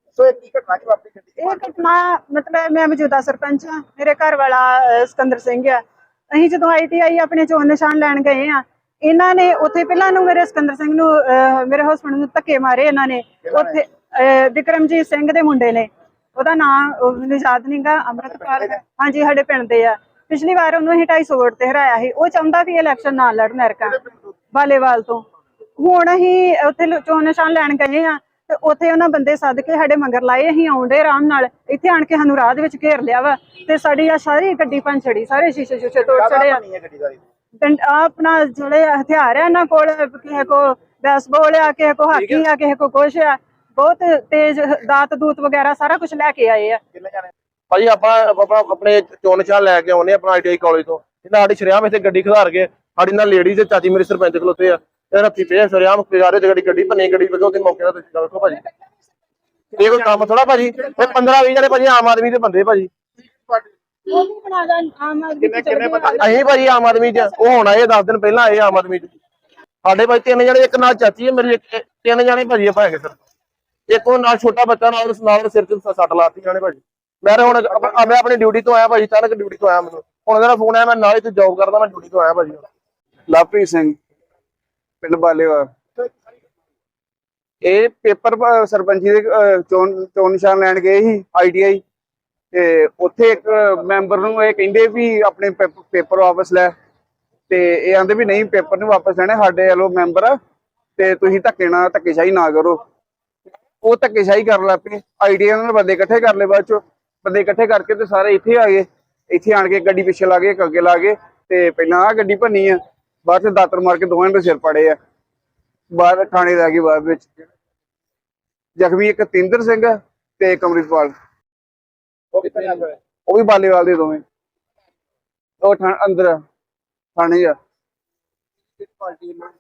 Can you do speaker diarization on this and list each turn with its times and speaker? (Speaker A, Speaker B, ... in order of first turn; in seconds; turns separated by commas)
Speaker A: 0.2-1.5, Speaker B: 1.4-5.8, Speaker B: 6.3-25.2, Speaker B: 25.8-36.6, Speaker A: 36.2-37.2, Speaker B: 37.6-46.8, Speaker C: 42.1-42.4, Speaker C: 47.7-58.6, Speaker C: 59.8-62.9, Speaker B: 64.1-66.4, Speaker A: 65.5-66.2, Speaker C: 66.2-69.1, Speaker C: 69.8-73.2, Speaker C: 73.9-82.7, Speaker D: 83.3-84.0, Speaker D: 85.0-85.7, Speaker D: 87.6-91.8, Speaker D: 92.5-96.7, Speaker D: 97.5-100.4, Speaker D: 101.0-102.8, Speaker D: 103.8-115.0, Speaker D: 115.9-117.3, Speaker D: 118.8-121.1, Speaker D: 122.4-124.2, Speaker D: 125.6-126.4, Speaker D: 127.2-127.5